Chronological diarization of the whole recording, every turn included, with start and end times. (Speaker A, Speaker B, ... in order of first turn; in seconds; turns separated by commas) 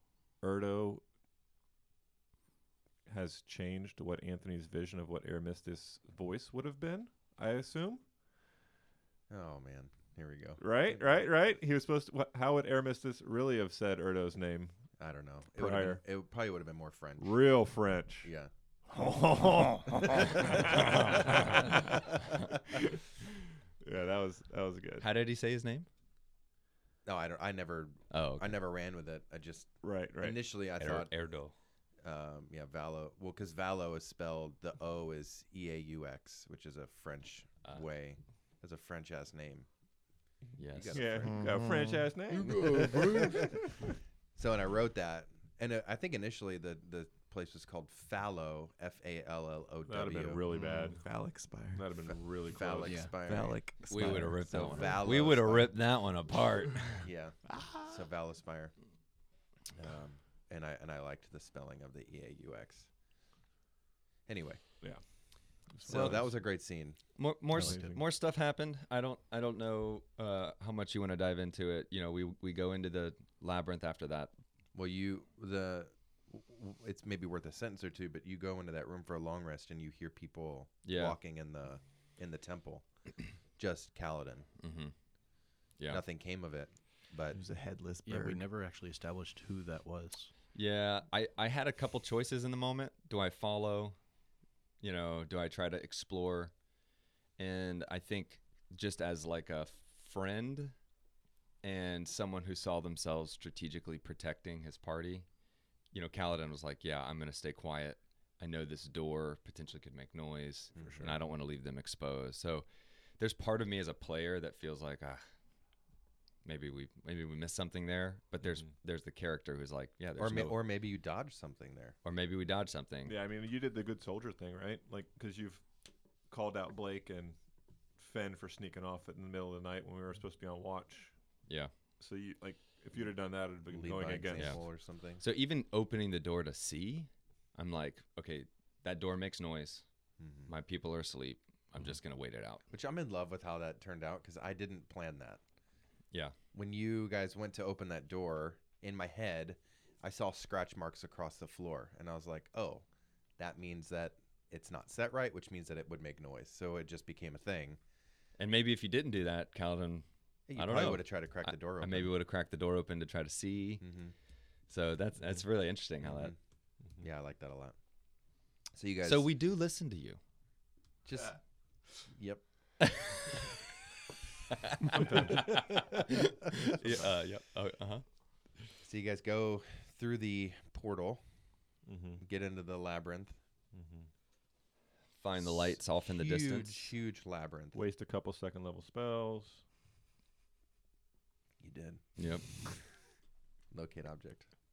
Speaker A: 0.4-1.1, Speaker A: 3.1-8.0, Speaker B: 9.3-11.0, Speaker A: 10.6-14.8, Speaker B: 15.0-17.4, Speaker A: 15.6-16.0, Speaker A: 17.2-18.3, Speaker B: 18.2-18.5, Speaker A: 19.0-25.1, Speaker C: 20.0-21.7, Speaker B: 20.0-20.9, Speaker C: 25.0-25.9, Speaker B: 27.1-31.1, Speaker C: 28.1-28.6, Speaker A: 29.8-30.4, Speaker C: 30.8-31.5, Speaker B: 32.0-39.7, Speaker C: 40.6-41.2, Speaker B: 40.7-41.6, Speaker A: 40.9-43.8, Speaker D: 41.3-42.1, Speaker B: 42.4-43.7, Speaker B: 44.4-50.4, Speaker A: 49.9-51.0, Speaker C: 50.5-50.9, Speaker D: 50.5-51.9, Speaker A: 51.7-53.1, Speaker B: 52.1-55.8, Speaker E: 52.9-53.1, Speaker D: 53.2-55.0, Speaker C: 53.9-57.1, Speaker B: 57.0-58.8, Speaker D: 57.5-58.0, Speaker B: 59.8-62.9, Speaker B: 64.3-64.6, Speaker A: 65.6-66.3, Speaker B: 65.8-67.0, Speaker C: 65.9-66.2, Speaker C: 67.2-74.3, Speaker E: 67.5-68.0, Speaker A: 67.6-68.0, Speaker B: 74.7-82.9, Speaker C: 80.8-81.2, Speaker B: 83.5-84.5, Speaker C: 84.6-84.9, Speaker B: 85.9-87.4, Speaker D: 87.4-88.4, Speaker E: 88.0-90.3, Speaker C: 90.5-94.0, Speaker C: 94.8-96.5, Speaker C: 97.4-100.7, Speaker C: 101.6-105.3, Speaker C: 105.9-112.7, Speaker B: 110.8-111.2, Speaker C: 113.2-115.2, Speaker C: 116.4-120.6, Speaker B: 120.2-122.0, Speaker C: 122.0-123.2, Speaker A: 123.0-125.7, Speaker A: 126.2-127.4, Speaker A: 128.0-131.1, Speaker A: 132.0-134.6, Speaker B: 133.7-135.2, Speaker C: 134.3-134.6, Speaker C: 135.2-139.8, Speaker B: 140.2-140.5, Speaker C: 140.5-142.6, Speaker B: 142.7-145.4, Speaker B: 146.5-152.8, Speaker B: 153.4-157.8, Speaker C: 158.4-163.9, Speaker B: 160.5-162.1, Speaker B: 163.8-164.1, Speaker C: 164.7-166.3, Speaker B: 166.0-166.4, Speaker B: 167.0-167.8, Speaker B: 168.7-169.3, Speaker C: 169.0-170.2, Speaker B: 171.1-171.4, Speaker B: 171.9-172.4, Speaker C: 173.0-173.3, Speaker C: 174.6-178.1, Speaker A: 174.9-175.5, Speaker B: 178.8-181.2, Speaker A: 181.9-182.2, Speaker B: 182.2-183.4, Speaker A: 183.7-184.1, Speaker C: 185.2-186.9, Speaker B: 185.4-187.8, Speaker A: 187.7-189.6, Speaker B: 191.6-192.2, Speaker C: 192.2-192.5, Speaker B: 193.7-194.5